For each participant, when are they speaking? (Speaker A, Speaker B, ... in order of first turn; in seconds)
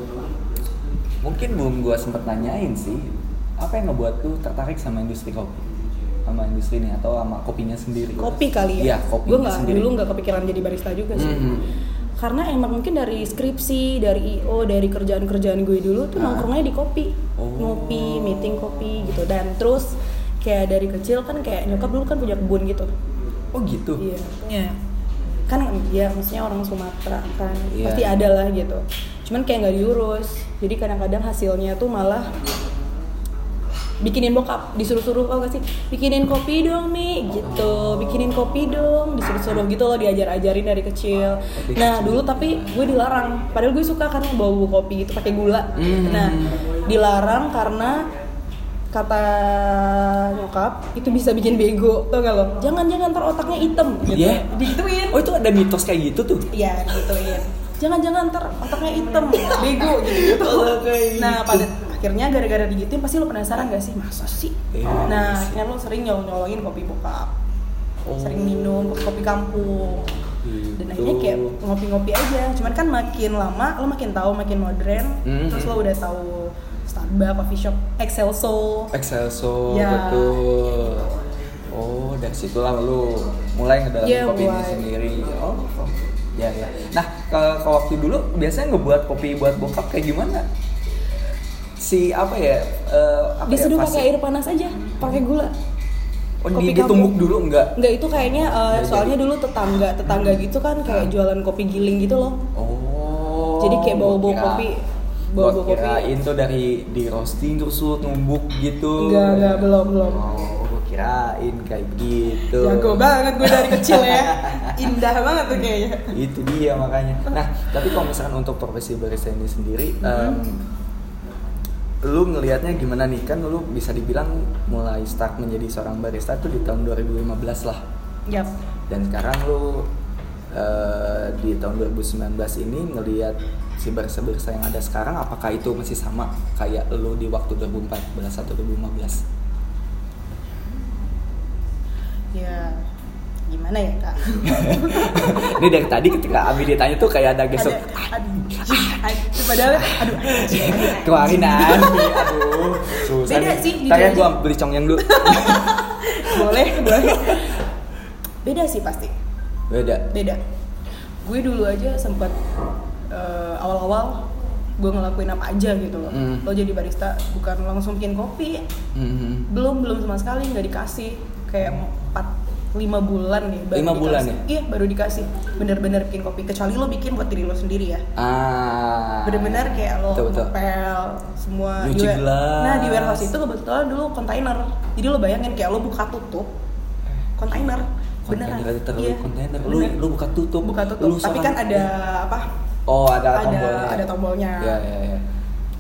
Speaker A: 1.2-5.7, 6.3-9.9, 11.1-11.7, 16.2-16.5, 17.4-19.1, 23.5-24.0, 27.7-28.2, 37.4-38.4, 41.6-43.0, 45.8-46.6, 54.1-56.5, 59.3-61.7, 64.7-65.6, 68.0-68.6, 70.4-71.6, 75.2-75.8, 78.9-81.1, 81.7-90.5, 91.8-94.1, 96.4-99.2, 100.9-101.1, 102.5-104.7, 105.4-114.9, 116.1-120.6, 122.0-127.8, 128.9-129.9, 130.5-139.2, 144.4-157.4, 159.7-160.1, 166.1-166.5, 168.9-169.5, 173.7-174.4, 178.2-180.5, 181.8-183.3, 187.4-191.9, 192.9-194.1, 194.6-195.2
Speaker B: 8.2-11.6, 12.2-22.9, 24.0-24.7, 25.5-32.3, 34.0-48.1, 48.9-55.2, 56.5-67.3, 68.2-70.1, 70.8-78.9, 79.7-80.5, 84.0-84.9, 93.5-95.5, 96.5-97.2, 97.8-102.4, 103.6-106.1, 109.0-110.3, 112.5-116.1, 120.0-120.4, 142.3-142.8, 143.5-145.4, 147.6-154.4, 155.0-157.6, 158.4-159.1, 160.1-160.4, 161.2-162.3, 163.1-164.3, 164.8-168.6, 169.5-178.1, 179.2-186.5, 187.4-190.0, 190.6-192.5, 193.3-194.8